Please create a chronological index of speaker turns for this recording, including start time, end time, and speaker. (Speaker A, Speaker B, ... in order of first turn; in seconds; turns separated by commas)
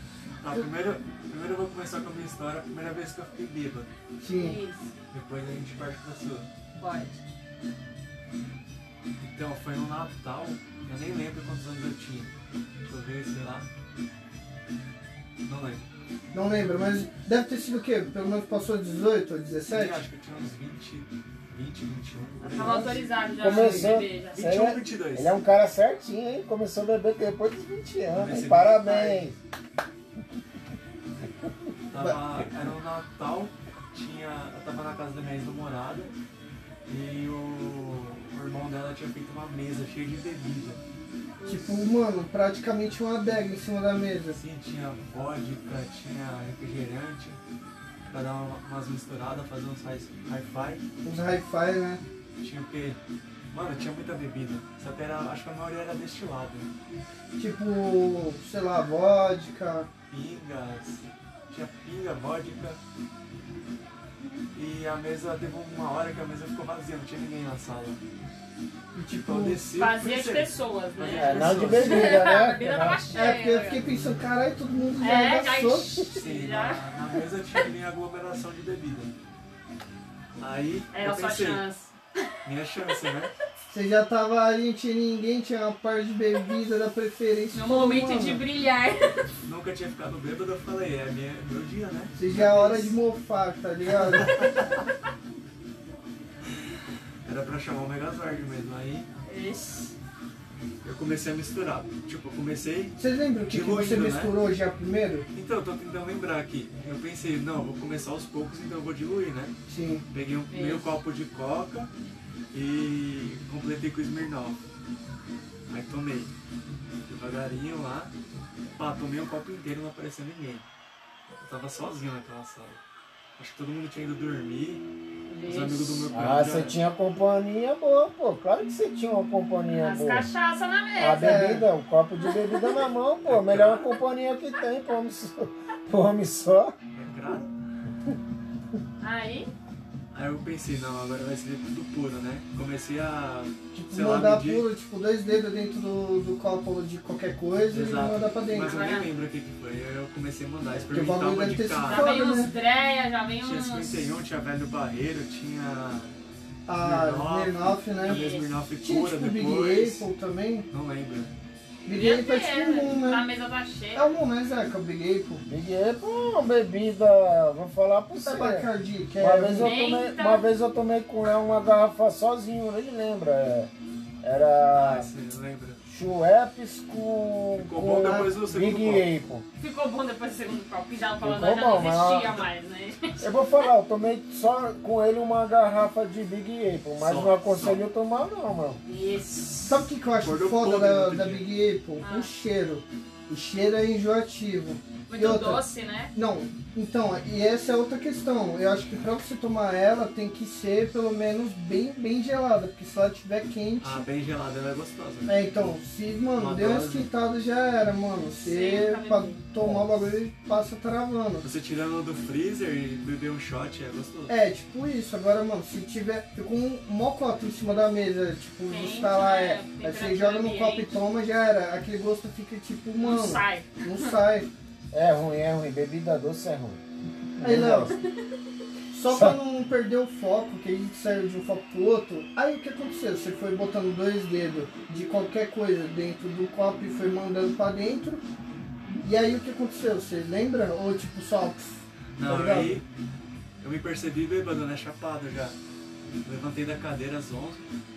Speaker A: 0.4-3.9, Speaker B: 4.2-4.6, Speaker C: 4.3-4.9, Speaker A: 5.1-6.5, Speaker C: 6.8-7.2, Speaker A: 9.2-12.3, Speaker A: 12.8-13.7, Speaker A: 15.4-15.8, Speaker B: 16.3-20.0, Speaker A: 19.7-23.0, Speaker C: 22.4-24.4, Speaker B: 22.6-24.0, Speaker D: 23.4-29.4, Speaker A: 24.3-25.4, Speaker A: 28.1-29.2, Speaker A: 31.9-36.1, Speaker A: 36.9-40.8, Speaker B: 41.4-44.4, Speaker A: 44.4-47.4, Speaker A: 48.1-50.8, Speaker B: 51.0-52.0, Speaker A: 52.4-53.0, Speaker A: 53.5-56.7, Speaker B: 57.4-59.9, Speaker A: 60.1-62.8, Speaker A: 64.5-68.0, Speaker B: 68.9-69.6, Speaker A: 69.2-72.3, Speaker C: 69.8-73.8, Speaker D: 71.1-73.0, Speaker B: 73.1-76.0, Speaker C: 75.0-76.8, Speaker A: 76.1-79.1, Speaker A: 80.4-81.6, Speaker C: 80.9-81.9, Speaker A: 82.4-83.3, Speaker B: 83.7-88.4, Speaker C: 87.5-89.3, Speaker A: 89.5-92.4, Speaker B: 92.1-94.5, Speaker C: 92.3-92.9, Speaker A: 94.0-94.5, Speaker A: 97.2-99.1, Speaker C: 99.2-99.9, Speaker A: 100.8-104.3, Speaker B: 103.0-105.2, Speaker A: 105.3-109.5, Speaker B: 109.7-110.0, Speaker A: 110.1-111.9, Speaker C: 110.5-111.0, Speaker A: 112.5-114.6, Speaker A: 115.7-116.3, Speaker A: 117.1-118.1, Speaker A: 118.7-120.7, Speaker A: 121.3-122.8, Speaker A: 123.4-124.8, Speaker C: 125.3-126.1, Speaker A: 125.5-126.8, Speaker D: 126.1-130.3, Speaker C: 129.8-131.4, Speaker D: 131.0-136.7, Speaker B: 131.1-131.6, Speaker C: 132.2-132.9, Speaker A: 133.2-133.9, Speaker A: 136.9-137.5, Speaker C: 139.0-139.5, Speaker A: 140.1-144.7, Speaker B: 143.7-148.7, Speaker A: 147.7-152.2, Speaker C: 148.6-149.1, Speaker B: 150.7-152.5, Speaker C: 151.8-154.1, Speaker A: 153.4-156.1, Speaker B: 156.7-158.2, Speaker A: 156.8-160.1, Speaker C: 158.0-158.5, Speaker B: 158.8-160.7, Speaker A: 160.7-161.3, Speaker B: 161.8-163.2, Speaker C: 161.9-164.2, Speaker B: 163.9-165.4, Speaker D: 165.4-173.7, Speaker B: 168.2-169.8, Speaker C: 169.6-170.4, Speaker D: 174.2-175.1, Speaker A: 174.7-175.8, Speaker D: 175.8-179.4, Speaker A: 177.6-179.1, Speaker B: 178.0-178.3, Speaker C: 179.6-183.3, Speaker D: 181.2-182.4, Speaker D: 183.2-188.8, Speaker A: 187.0-187.8, Speaker C: 188.8-189.5, Speaker A: 189.3-191.5, Speaker B: 189.7-195.6, Speaker C: 192.0-192.3, Speaker C: 195.1-196.1, Speaker B: 196.1-204.1, Speaker A: 203.8-205.4, Speaker B: 205.3-211.5, Speaker A: 206.3-207.1, Speaker C: 208.2-209.4, Speaker A: 211.4-214.3, Speaker B: 214.3-224.5, Speaker C: 218.7-220.9, Speaker C: 223.0-224.2, Speaker D: 224.9-226.8, Speaker D: 227.4-227.9, Speaker B: 227.4-227.9, Speaker B: 228.9-238.2, Speaker D: 229.1-229.4, Speaker B: 239.0-242.8, Speaker A: 242.2-242.8, Speaker A: 243.6-245.6, Speaker A: 246.2-247.6